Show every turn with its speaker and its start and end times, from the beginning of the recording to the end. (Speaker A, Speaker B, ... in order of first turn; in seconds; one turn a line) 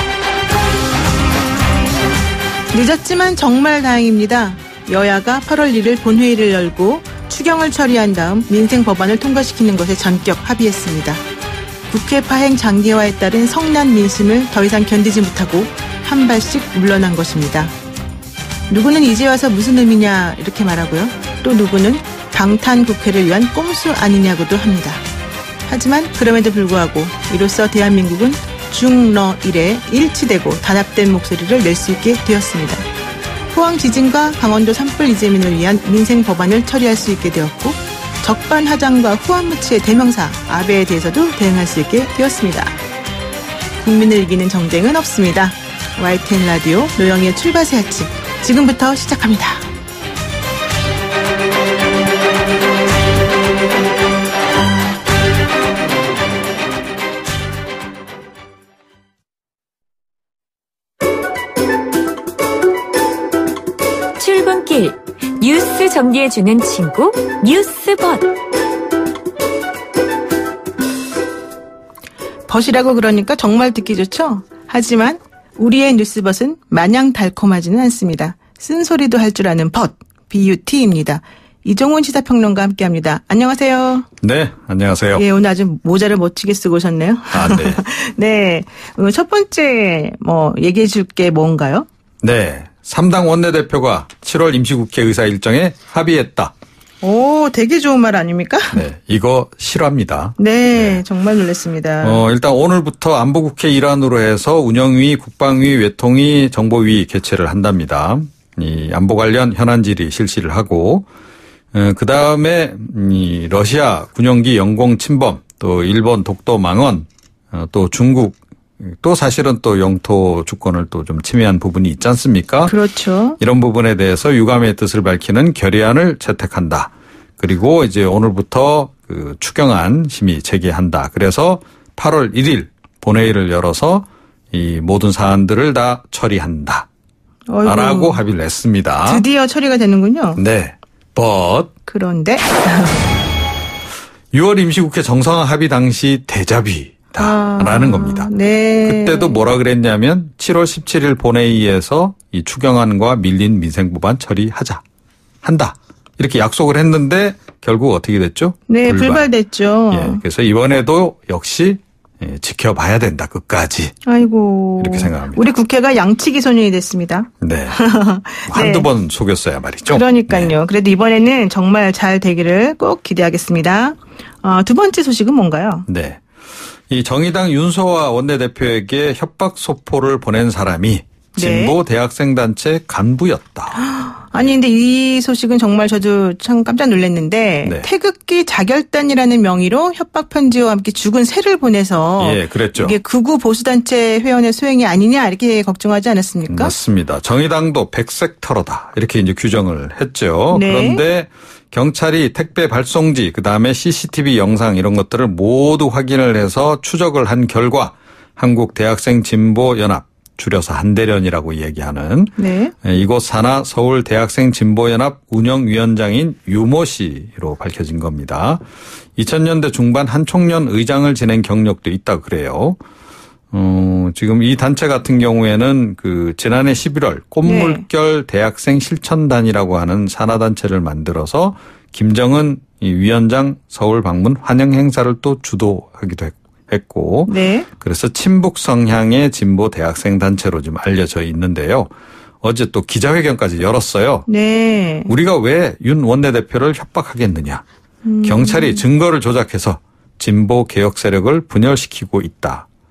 Speaker A: 2.7-11.2
Speaker A: 11.9-17.7
Speaker A: 18.7-25.0
Speaker A: 25.7-32.8
Speaker A: 33.5-42.8
Speaker A: 43.8-49.6
Speaker B: 64.2-68.3
Speaker A: 72.5-84.0
Speaker C: 84.2-85.2
Speaker A: 85.2-91.9
Speaker C: 87.3-87.8
Speaker C: 92.2-96.5
Speaker A: 97.0-98.8
Speaker C: 98.7-101.0
Speaker A: 100.4-102.2
Speaker C: 102.0-111.0
Speaker C: 111.7-122.7
Speaker A: 122.7-123.4
Speaker C: 123.4-136.8
Speaker A: 137.5-138.2
Speaker C: 137.6-139.2
Speaker A: 139.0-140.4
Speaker C: 140.4-141.7
Speaker A: 141.9-143.0
Speaker C: 144.3-148.3
Speaker A: 147.2-149.4
Speaker C: 148.8-154.8
Speaker C: 155.4-159.3
Speaker A: 158.7-160.2
Speaker C: 159.9-163.9
Speaker A: 164.1-168.8
Speaker C: 164.8-165.4
Speaker C: 167.4-167.8
Speaker C: 168.5-170.5
Speaker A: 169.8-175.8
Speaker C: 175.9-176.2
Speaker C: 176.9-183.8
Speaker A: 181.4-181.8
Speaker A: 183.8-196.7
Speaker C: 192.2-192.9
Speaker C: 196.5-218.6
Speaker A: 200.5-201.0
Speaker A: 212.4-212.7
Speaker C: 219.2-222.8
Speaker C: 223.5-241.9
Speaker A: 227.4-227.8
Speaker A: 237.3-237.7
Speaker C: 242.4-244.2
Speaker A: 244.3-245.1
Speaker C: 245.1-247.6
Speaker A: 248.0-248.8
Speaker C: 248.2-252.6